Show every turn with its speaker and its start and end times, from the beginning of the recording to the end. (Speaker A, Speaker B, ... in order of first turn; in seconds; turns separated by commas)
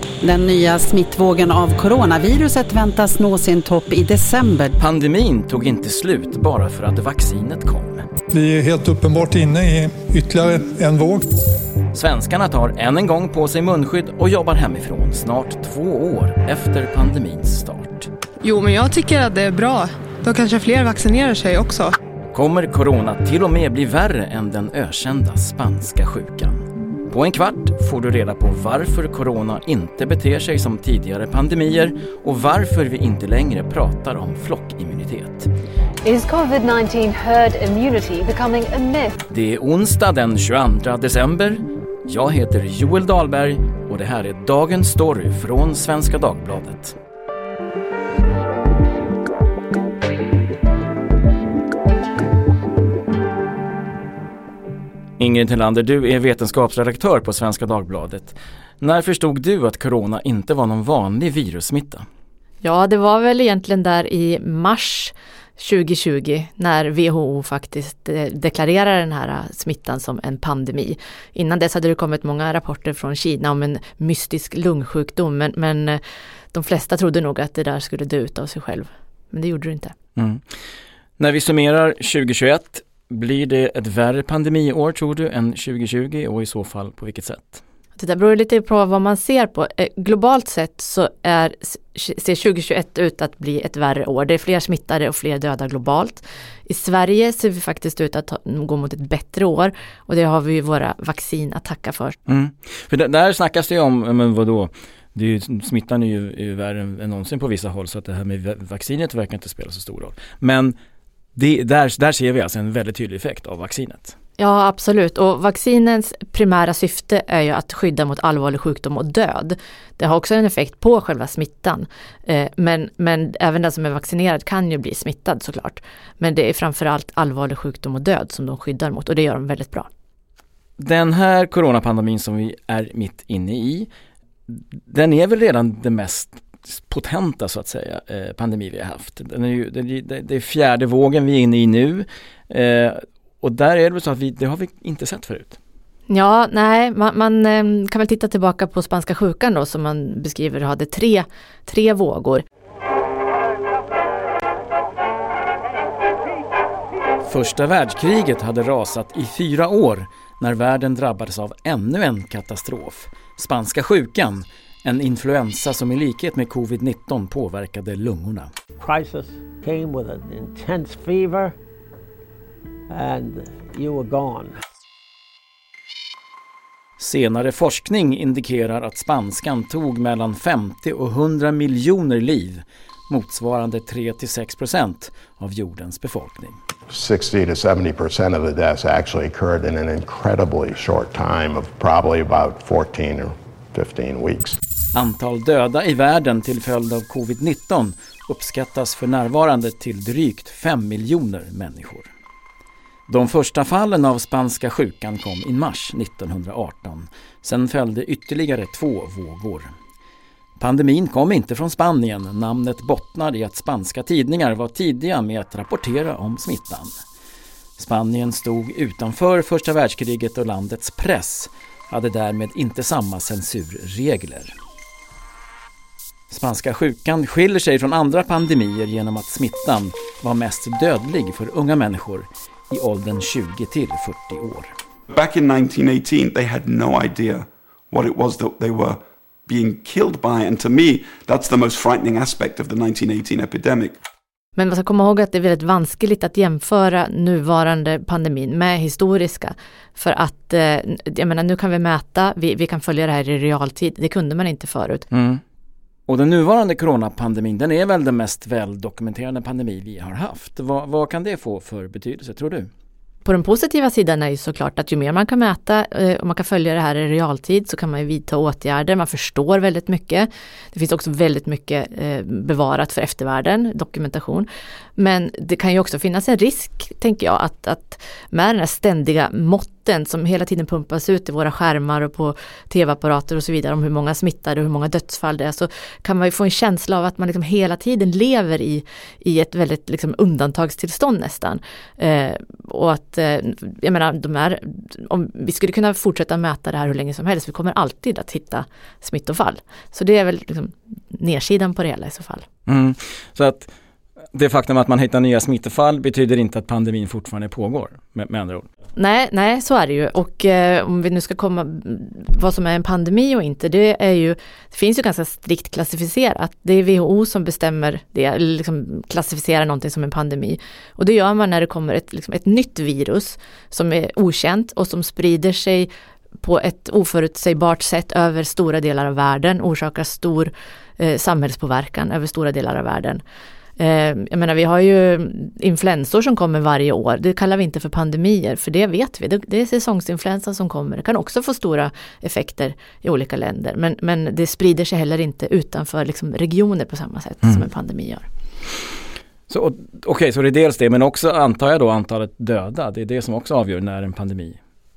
Speaker A: 0.2-4.7, Speaker B: 4.8-8.0, Speaker C: 8.3-11.2, Speaker B: 11.9-18.1, Speaker D: 18.4-21.9, Speaker B: 22.3-35.5, Speaker E: 36.0-39.1, Speaker B: 39.3-46.9, Speaker B: 55.2-62.0, Speaker F: 62.6-76.0, Speaker F: 76.5-79.9, Speaker B: 80.2-80.4, Speaker B: 81.2-87.6, Speaker F: 88.0-102.2, Speaker B: 102.3-110.7, Speaker B: 111.3-114.1, Speaker F: 114.4-129.9, Speaker B: 130.8-133.9, Speaker B: 134.5-145.6, Speaker F: 146.1-152.4, Speaker B: 157.2-168.5, Speaker G: 168.8-171.5, Speaker G: 172.9-174.6, Speaker B: 177.0-186.6, Speaker H: 186.9-194.6, Speaker B: 194.9-202.1, Speaker B: 203.1-209.7, Speaker B: 210.6-216.9, Speaker B: 217.8-224.5, Speaker B: 226.3-234.7, Speaker I: 235.1-243.9, Speaker F: 244.6-255.0, Speaker B: 255.1-255.4, Speaker B: 256.1-262.7, Speaker F: 263.2-302.4, Speaker B: 302.7-303.7, Speaker B: 304.3-308.7, Speaker F: 308.9-325.9, Speaker F: 326.4-333.2, Speaker F: 333.8-348.3, Speaker B: 349.5-354.6